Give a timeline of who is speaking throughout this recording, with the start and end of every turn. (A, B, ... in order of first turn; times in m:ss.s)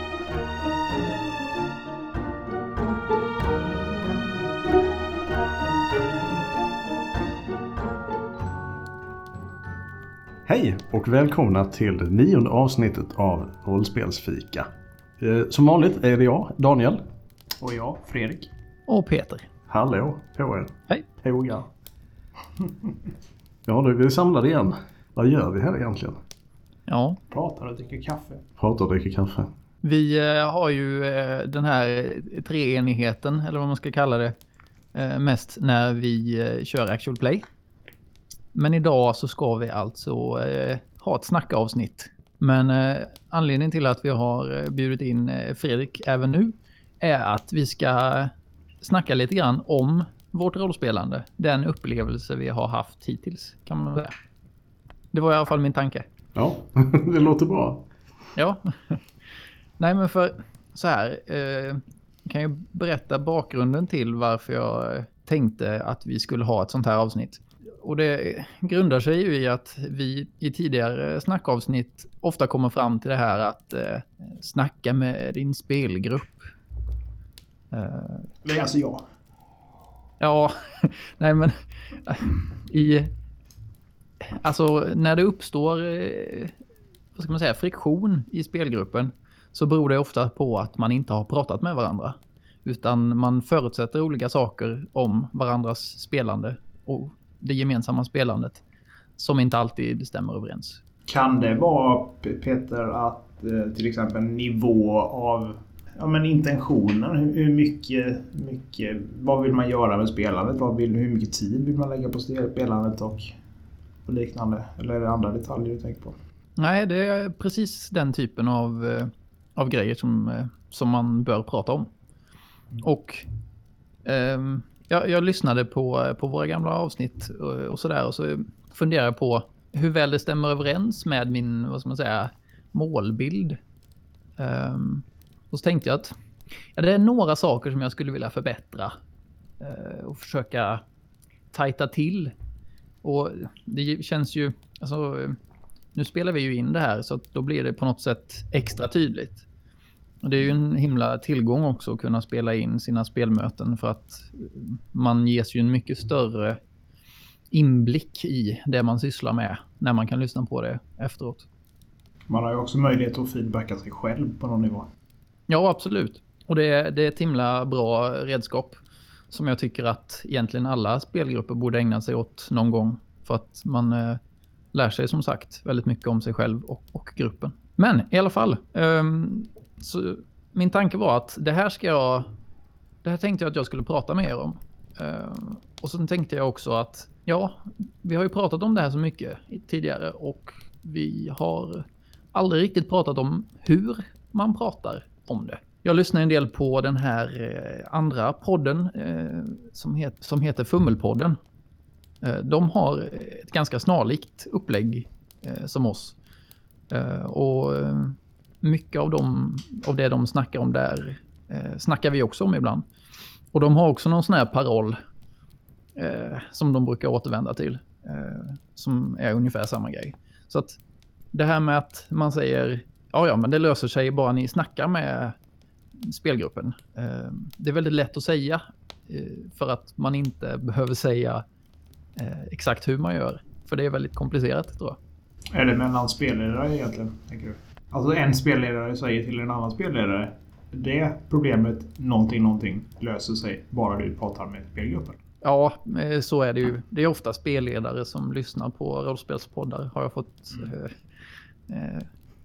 0:10.5-0:14.7 A
0:15.2-0:17.0 A
0:17.6-0:18.5 B
0:18.9-0:19.5 C
0:19.7-0:21.7 A
0:23.7-0:26.2 A
0:26.9-0:27.2 C
0:27.3-0:28.4 B
0:28.6-0:29.5 A
0:29.8-0:34.4 C
0:35.0-0:37.4 C
0:38.5-0:54.1 C
0:55.1-0:56.0 C
0:56.3-0:57.9 A
0:58.4-0:59.0 C
0:59.8-1:16.4 C
1:17.7-1:18.3 C
1:18.4-1:19.0 B
1:20.2-1:23.1 C
1:24.3-1:26.5 C
1:27.2-1:38.6 C
1:39.2-1:40.8 C
1:41.1-1:53.4 B
1:54.1-1:56.2 B
1:56.6-2:01.9 C
2:02.8-2:03.2 C
2:04.0-2:13.6 C
2:14.4-2:16.1 C
2:16.8-2:18.9 C
2:19.6-2:20.8 C
2:21.5-2:22.3 C
2:23.0-2:25.4 C
2:26.0-2:29.4 C
2:30.2-2:36.6 C
2:37.5-2:41.4 C
2:42.3-2:44.9 B
2:45.5-2:48.8 C
2:49.3-2:54.2 C
2:54.7-3:02.3 C
3:03.0-3:21.4 C
3:22.2-3:26.2 C
3:26.9-3:32.8 C
3:33.5-3:35.0 C
3:36.0-3:40.8 C
3:41.3-3:45.4 C
3:46.0-3:51.4 C
3:52.2-3:55.0 C
3:55.5-4:05.2 B
4:05.4-4:11.0 C
4:11.7-4:12.1 C